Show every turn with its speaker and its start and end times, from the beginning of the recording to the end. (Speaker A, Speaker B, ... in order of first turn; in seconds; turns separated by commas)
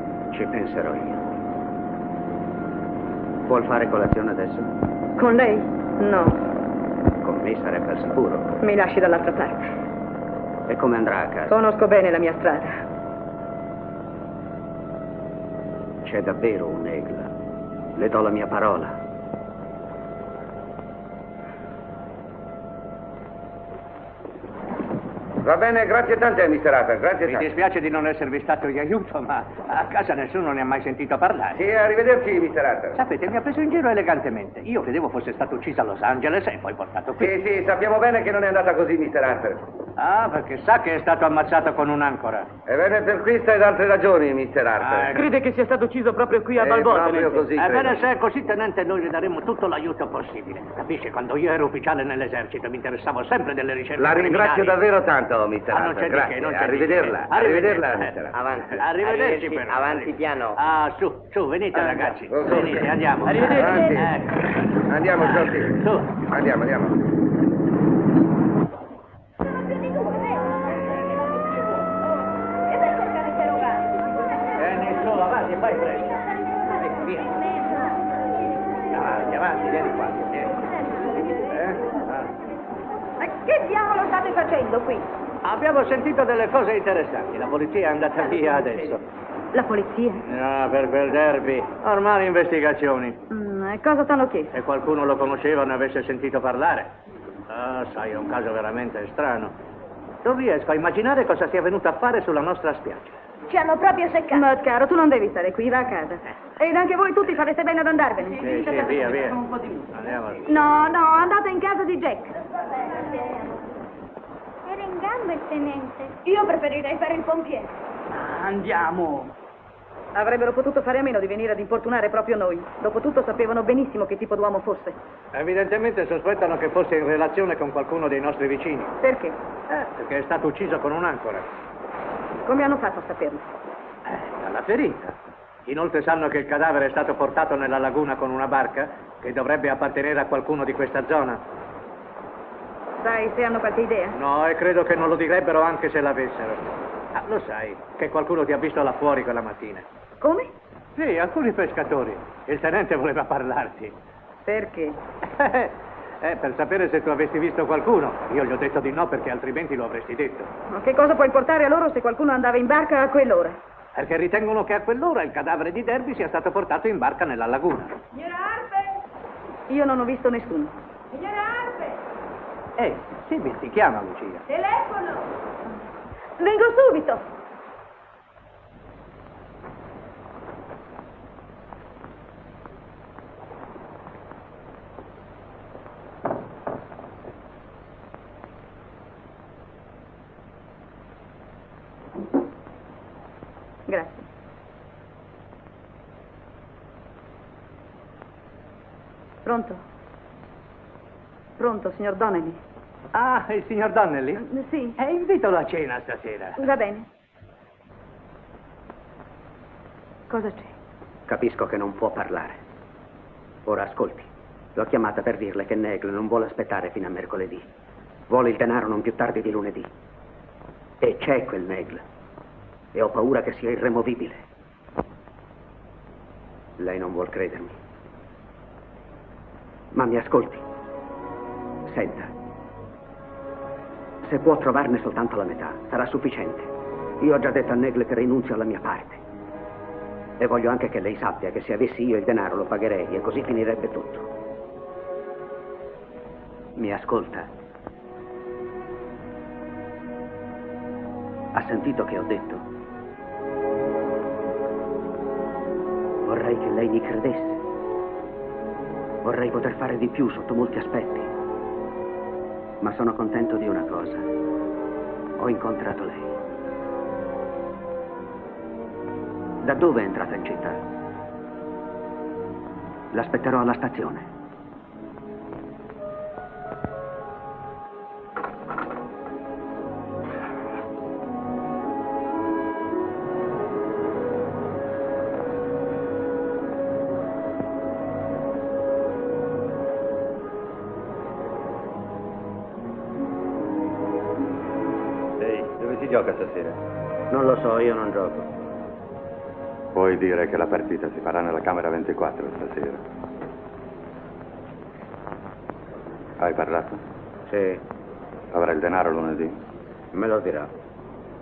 Speaker A: 0.3-1.2, Speaker A: 3.5-4.7, Speaker B: 5.2-6.4, Speaker A: 7.2-8.5, Speaker B: 8.6-9.7, Speaker A: 10.7-11.6, Speaker B: 11.5-12.7, Speaker A: 16.0-17.3, Speaker A: 17.9-19.0, Speaker C: 25.4-27.5, Speaker D: 27.2-31.6, Speaker C: 31.5-33.0, Speaker D: 33.0-37.3, Speaker C: 37.2-39.6, Speaker D: 40.0-42.5, Speaker C: 42.7-45.1, Speaker D: 44.8-45.2, Speaker E: 45.1-47.5, Speaker C: 46.5-48.0, Speaker D: 47.5-54.8, Speaker C: 54.0-58.5, Speaker D: 55.7-58.1, Speaker F: 58.4-60.5, Speaker D: 58.7-64.5, Speaker C: 59.0-59.6, Speaker E: 61.7-62.1, Speaker C: 62.3-62.9, Speaker E: 63.2-63.9, Speaker C: 63.4-64.1, Speaker C: 64.9-67.0, Speaker D: 65.1-66.2, Speaker D: 74.6-76.2, Speaker D: 78.9-80.6, Speaker D: 81.4-82.3, Speaker B: 83.2-85.0, Speaker D: 85.4-89.0, Speaker D: 90.2-93.2, Speaker B: 93.3-94.6, Speaker D: 94.5-96.9, Speaker D: 97.5-99.5, Speaker D: 100.2-103.1, Speaker G: 103.5-104.2, Speaker B: 104.3-108.4, Speaker E: 108.2-110.1, Speaker D: 108.4-109.4, Speaker D: 109.9-110.4, Speaker B: 110.5-112.3, Speaker G: 114.7-116.2, Speaker B: 116.4-117.2, Speaker G: 117.3-117.6, Speaker E: 118.1-119.3, Speaker B: 120.1-125.0, Speaker D: 125.3-128.9, Speaker B: 129.0-129.4, Speaker D: 129.7-131.5, Speaker B: 132.4-133.5, Speaker D: 134.1-141.4, Speaker B: 143.0-144.2, Speaker D: 144.1-149.8, Speaker B: 150.2-150.5, Speaker D: 150.9-153.9, Speaker B: 154.4-155.0, Speaker D: 155.3-160.5, Speaker B: 160.7-163.6, Speaker D: 163.9-167.9, Speaker B: 169.7-170.8, Speaker D: 172.8-174.4, Speaker B: 193.9-194.3, Speaker B: 199.4-199.8, Speaker B: 201.6-202.6, Speaker D: 203.1-204.4, Speaker B: 204.4-205.0, Speaker D: 205.0-206.7, Speaker B: 206.6-207.1, Speaker B: 210.3-210.7, Speaker A: 211.3-212.6, Speaker A: 213.7-217.7, Speaker A: 218.3-219.9, Speaker A: 221.0-222.0, Speaker A: 222.9-224.4, Speaker A: 226.8-227.8, Speaker A: 229.9-230.6, Speaker A: 231.9-232.3, Speaker A: 234.2-236.7, Speaker A: 237.2-239.2, Speaker A: 240.4-244.3, Speaker A: 246.8-247.5, Speaker A: 251.5-252.6, Speaker A: 256.2-257.6, Speaker A: 259.2-261.3, Speaker A: 262.8-264.3, Speaker A: 265.4-266.3, Speaker A: 269.6-270.8, Speaker A: 273.1-274.3, Speaker H: 295.4-296.8, Speaker F: 297.3-298.4, Speaker H: 299.9-303.0, Speaker H: 306.4-307.0, Speaker A: 307.5-307.8, Speaker H: 308.5-309.6, Speaker A: 310.1-310.7